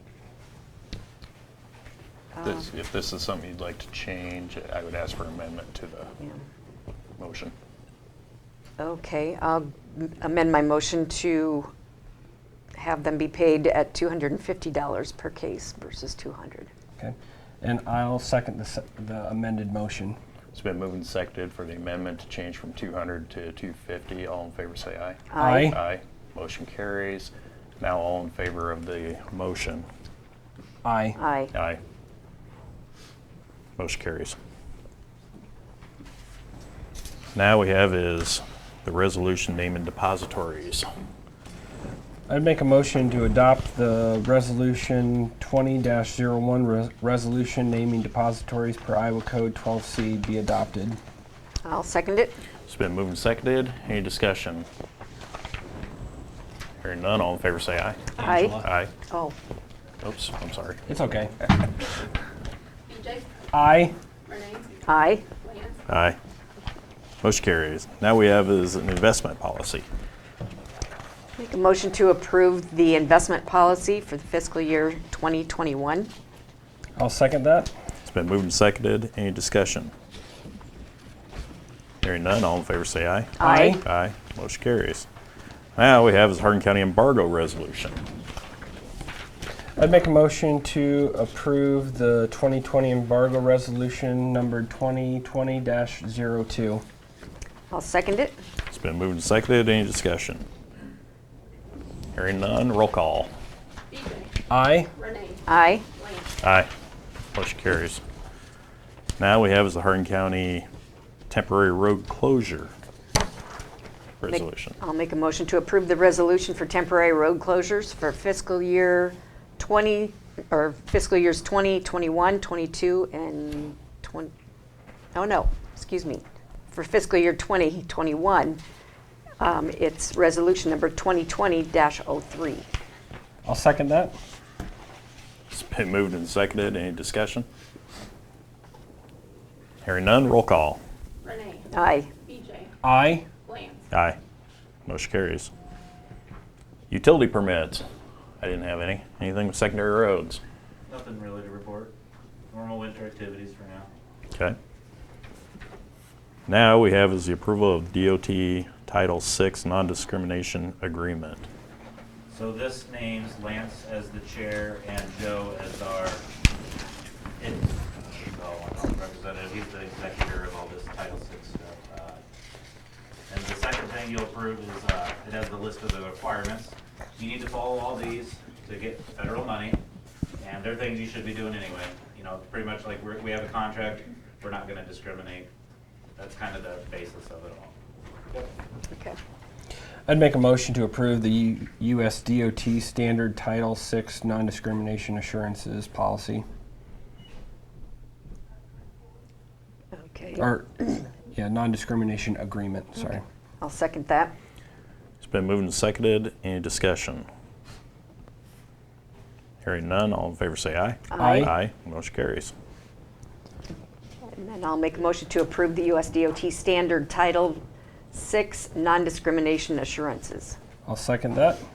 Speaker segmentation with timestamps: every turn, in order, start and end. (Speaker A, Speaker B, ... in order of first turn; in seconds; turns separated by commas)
Speaker A: 2.4-2.6, Speaker B: 2.4-6.1, Speaker B: 7.2-7.5, Speaker A: 8.8-11.7, Speaker A: 12.8-16.7, Speaker C: 17.0-20.2, Speaker B: 20.5-29.9, Speaker A: 25.3-25.8, Speaker C: 25.4-25.8, Speaker C: 30.8-31.2, Speaker A: 31.2-31.5, Speaker B: 31.5-31.8, Speaker B: 33.8-34.4, Speaker B: 37.3-40.9, Speaker C: 42.3-51.0, Speaker A: 51.6-52.4, Speaker B: 52.7-54.7, Speaker B: 56.8-58.9, Speaker C: 58.2-58.6, Speaker A: 58.2-59.4, Speaker B: 60.0-60.8, Speaker C: 60.9-61.4, Speaker D: 62.9-63.4, Speaker C: 63.5-64.0, Speaker D: 64.3-64.8, Speaker A: 64.9-65.3, Speaker D: 65.4-65.8, Speaker B: 65.9-66.2, Speaker B: 67.2-69.9, Speaker A: 71.4-76.1, Speaker C: 77.0-77.7, Speaker B: 78.1-79.9, Speaker B: 82.0-85.1, Speaker A: 83.4-83.8, Speaker C: 83.4-83.8, Speaker B: 85.8-88.0, Speaker C: 89.8-96.8, Speaker A: 97.7-98.4, Speaker B: 98.7-100.5, Speaker B: 102.2-103.3, Speaker D: 103.9-104.3, Speaker C: 104.5-104.9, Speaker D: 105.0-106.3, Speaker A: 105.5-105.8, Speaker B: 106.4-106.7, Speaker B: 107.3-108.0, Speaker B: 109.2-110.7, Speaker B: 111.3-112.7, Speaker B: 114.2-114.8, Speaker A: 114.3-124.3, Speaker A: 125.1-128.6, Speaker A: 129.4-132.7, Speaker C: 133.4-134.2, Speaker B: 135.5-137.5, Speaker B: 139.8-140.8, Speaker D: 141.2-141.7, Speaker A: 141.7-142.1, Speaker D: 142.2-142.7, Speaker C: 142.8-143.3, Speaker D: 143.5-143.8, Speaker B: 143.9-144.2, Speaker B: 144.9-145.5, Speaker B: 146.9-147.8, Speaker B: 148.4-150.4, Speaker E: 150.9-151.9, Speaker E: 152.5-153.9, Speaker B: 156.5-161.5, Speaker E: 162.3-166.2, Speaker E: 167.4-172.2, Speaker E: 173.3-179.8, Speaker E: 180.4-185.5, Speaker E: 186.2-187.7, Speaker A: 188.9-189.2, Speaker C: 190.1-196.4, Speaker A: 199.9-200.5, Speaker C: 200.4-203.2, Speaker A: 203.6-204.3, Speaker B: 205.2-207.3, Speaker B: 209.6-212.5, Speaker A: 211.1-211.5, Speaker C: 211.2-211.5, Speaker A: 214.3-217.6, Speaker A: 218.1-220.6, Speaker C: 220.9-221.6